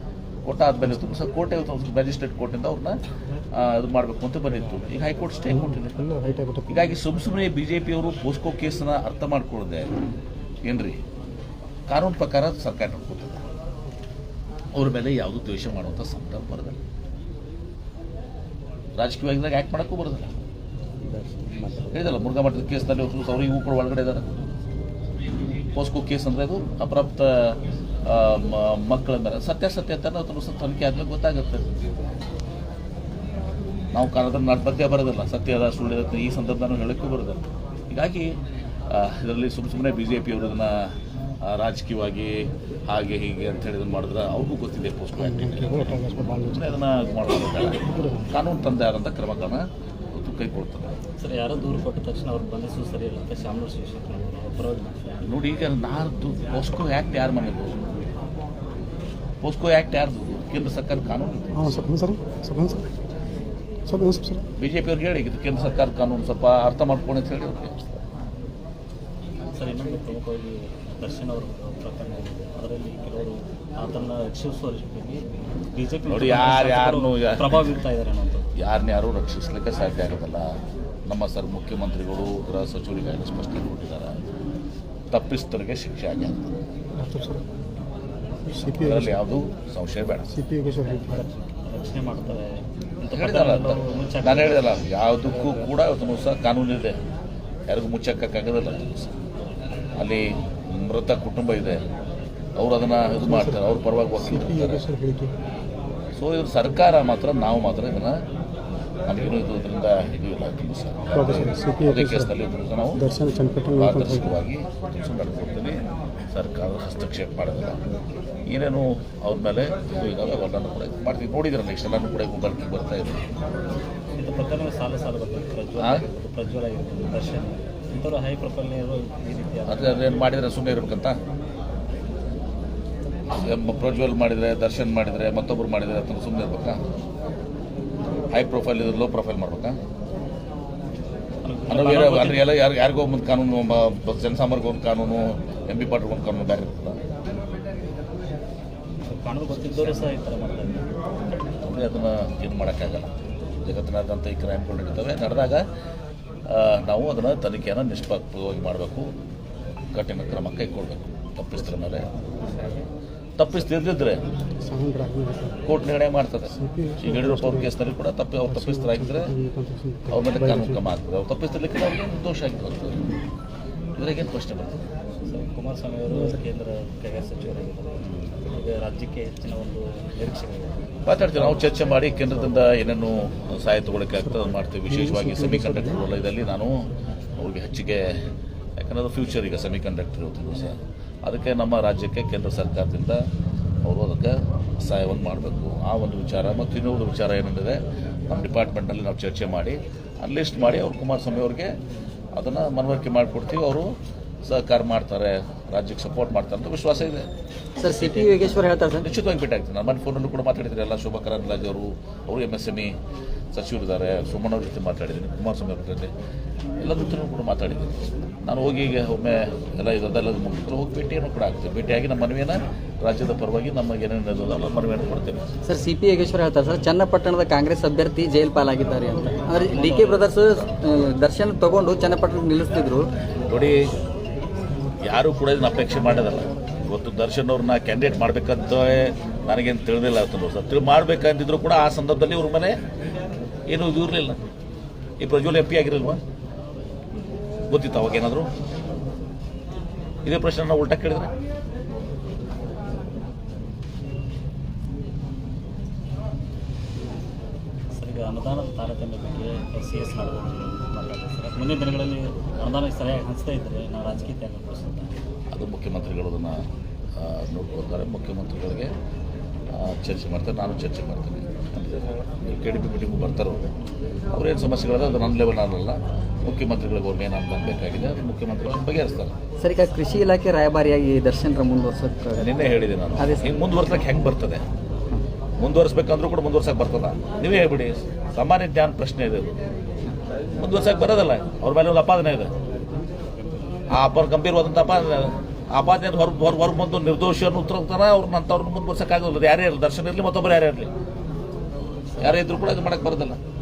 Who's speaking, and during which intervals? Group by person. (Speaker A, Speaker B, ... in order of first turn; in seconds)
Speaker A: 0.4-3.0, 3.5-5.9, 6.7-9.9, 10.6-11.0, 11.9-13.4, 14.7-16.8, 19.0-20.3, 21.9-24.3, 25.7-31.6, 33.9-38.3, 38.9-40.9, 41.4-51.0, 55.2-57.8, 59.4-61.8, 64.6-67.7, 76.1-77.8, 78.5-84.2, 85.1-86.5, 88.7-90.3, 93.1-97.0, 97.7-99.1, 100.0-101.8, 102.6-104.8, 106.2-108.2, 109.1-113.0, 113.8-115.8, 116.3-117.8, 118.5-123.2, 125.8-126.0, 129.7-131.2, 133.3-136.8, 138.3-139.8, 141.7-147.0, 149.6-150.1, 151.6-153.1, 153.6-155.6, 156.5-159.1, 159.9-162.1, 163.4-164.2, 165.6-169.3, 170.1-173.0, 173.9-174.8, 181.1-186.7, 187.4-188.2, 188.8-193.2, 193.8-201.7, 202.3-203.9, 204.4-207.3, 209.0-212.9, 213.5-216.1, 216.8-225.5, 233.5-233.9, 235.0-242.8, 243.7-244.4, 245.2-246.2, 247.7-248.5, 250.2-251.3, 265.5-266.6, 267.2-268.9, 269.7-273.7, 274.3-279.3, 282.4-284.6, 285.6-289.5, 290.6-292.5, 293.9-300.9, 302.2-303.4
Speaker B: 5.5-6.9, 45.2-46.8, 47.8-48.3, 61.5-62.9, 63.9-64.5, 87.0-87.4, 88.5-89.2, 90.3-91.2, 103.2-105.3, 111.1-112.3, 112.9-114.4, 164.6-165.6, 166.5-167.8, 168.4-170.8, 184.9-186.0
Speaker C: 21.1-21.9, 51.2-55.2, 69.5-78.5, 91.1-95.7, 124.2-130.2, 141.4-142.5, 149.1-150.9, 175.2-181.8, 207.8-208.6, 229.6-230.4, 257.9-265.2, 293.3-293.9, 302.2-302.6
Speaker D: 207.8-209.1, 225.6-233.1, 279.6-282.5, 283.2-283.5